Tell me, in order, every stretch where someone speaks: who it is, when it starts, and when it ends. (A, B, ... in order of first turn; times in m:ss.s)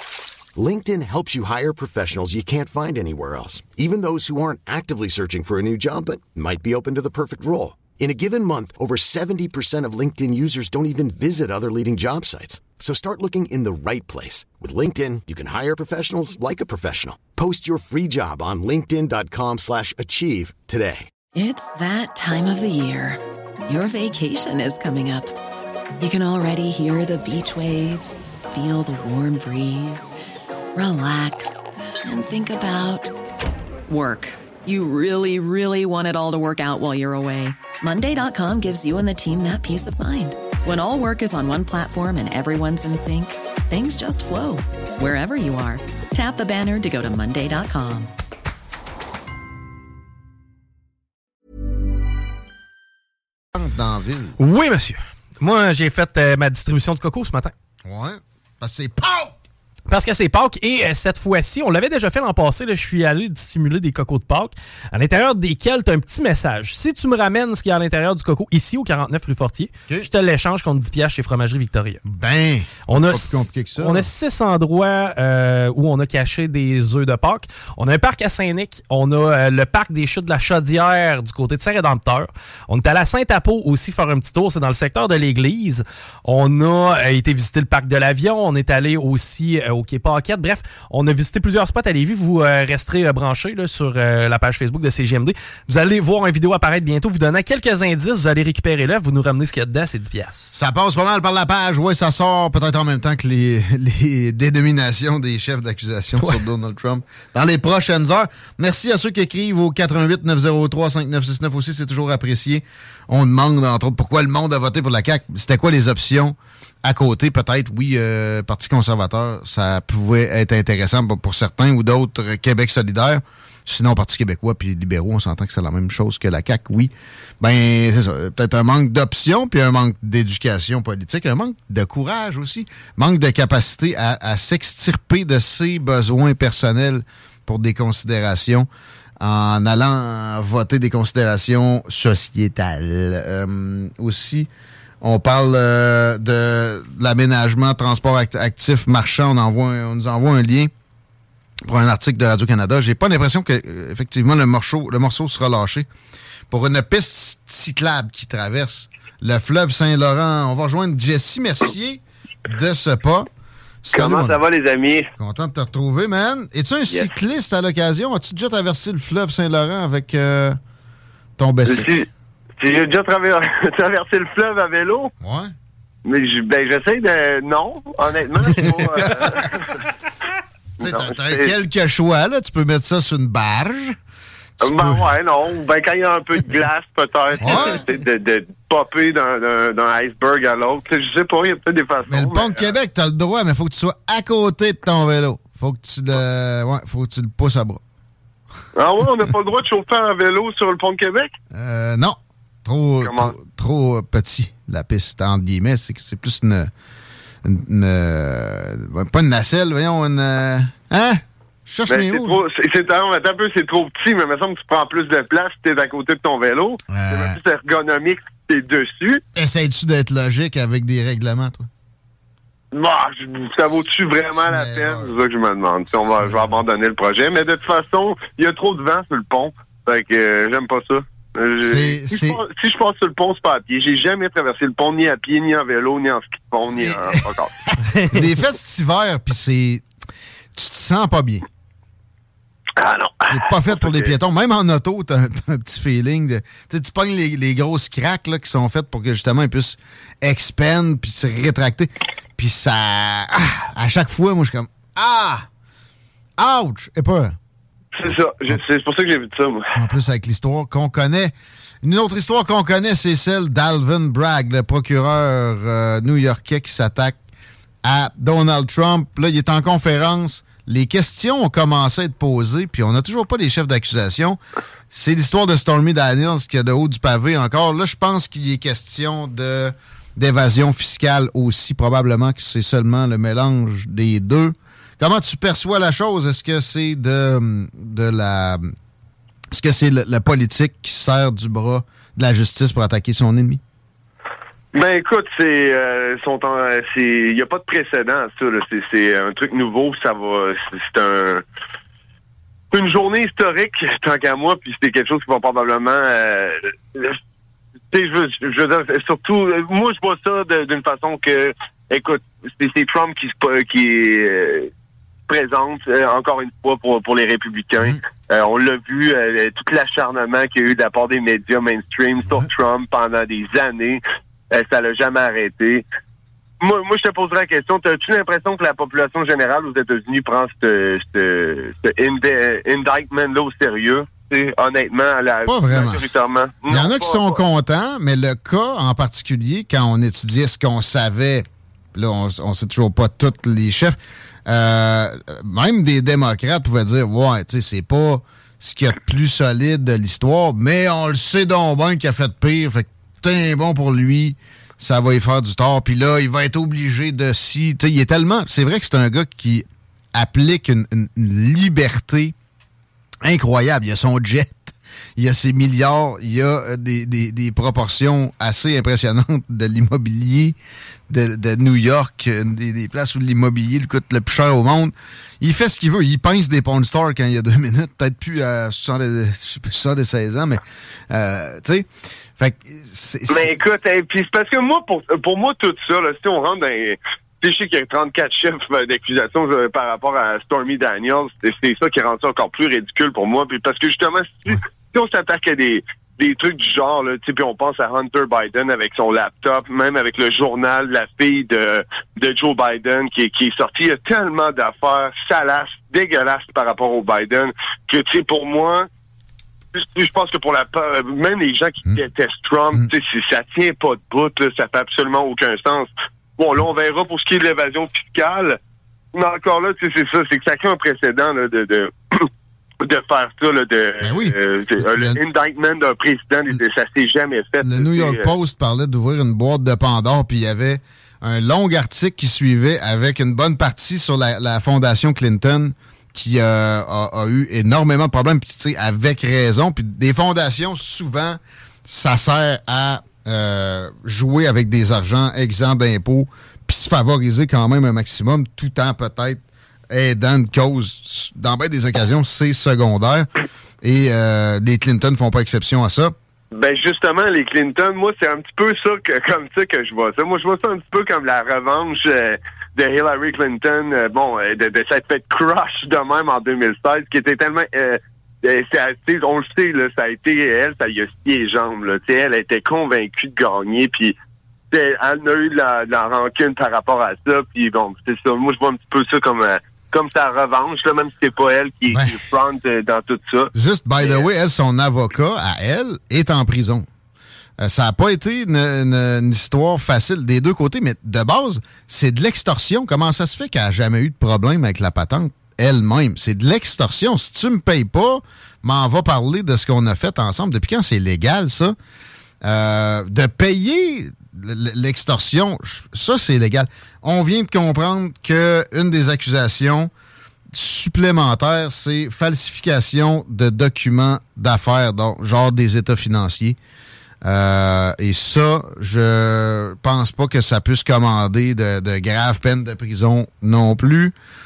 0:00.6-0:21.1 A
0:21.3-0:25.3 B
0:26.0-0:30.1 B
0:30.7-0:33.1 B
0:33.9-0:48.1 B
0:53.5-0:54.3 C
0:54.4-0:57.5 D
0:57.8-0:59.3 C
0:59.9-1:12.0 D
1:12.0-1:14.1 C
1:12.9-1:40.5 D
1:40.5-2:18.7 C
2:19.2-2:24.5 C
2:25.0-2:30.7 C
2:31.6-2:35.9 C
2:36.5-2:43.3 C
2:43.8-2:44.4 C
2:43.9-2:45.1 E
2:45.2-2:50.6 C
2:51.4-2:51.9 C
2:51.7-2:52.1 E
2:52.6-2:55.1 E
2:55.2-2:55.5 C
2:56.0-2:59.8 E
2:58.4-2:59.6 C
3:00.8-3:04.0 C
3:00.8-3:01.5 E
3:04.6-3:05.1 C
3:04.6-3:12.7 E
3:07.4-3:07.8 C
3:12.1-3:17.8 C
3:18.7-3:21.3 E
3:21.5-3:26.7 C
3:23.0-3:23.3 E
3:27.4-3:32.4 C
3:31.9-3:39.2 E
3:36.9-3:37.4 C
3:39.3-3:41.7 C
3:42.7-3:57.5 E
3:44.3-3:45.2 C
3:46.2-3:46.6 C
3:51.6-3:52.4 C
3:56.8-3:59.8 C
3:58.0-3:58.2 D
4:00.5-4:01.5 C
4:02.8-4:04.1 E
4:03.3-4:15.5 C
4:16.4-4:17.4 C
4:17.9-4:19.7 E
4:18.1-4:18.6 C
4:19.7-4:27.2 C
4:27.8-4:34.4 C
4:34.9-4:48.7 C
4:49.5-4:53.6 C
4:54.7-5:01.4 E
5:02.7-5:07.2 E
5:07.9-5:14.7 E
5:15.3-5:25.8 E
5:26.6-5:37.4 E
5:35.4-5:36.0 C
5:36.7-6:02.3 C
6:03.2-6:10.6 C
6:11.1-6:23.6 C
6:23.3-6:48.9 E
6:49.7-6:58.6 E
6:59.1-7:02.3 E
7:02.8-7:08.3 E
7:04.0-7:05.2 C
7:07.6-7:33.3 C
7:33.8-7:36.1 C
7:36.5-7:54.1 E
7:54.7-8:04.3 E
8:01.9-8:02.2 C
8:03.5-8:06.9 C
8:07.6-8:21.8 C
8:22.4-8:29.9 C
8:30.5-8:36.6 C
8:37.2-8:44.1 C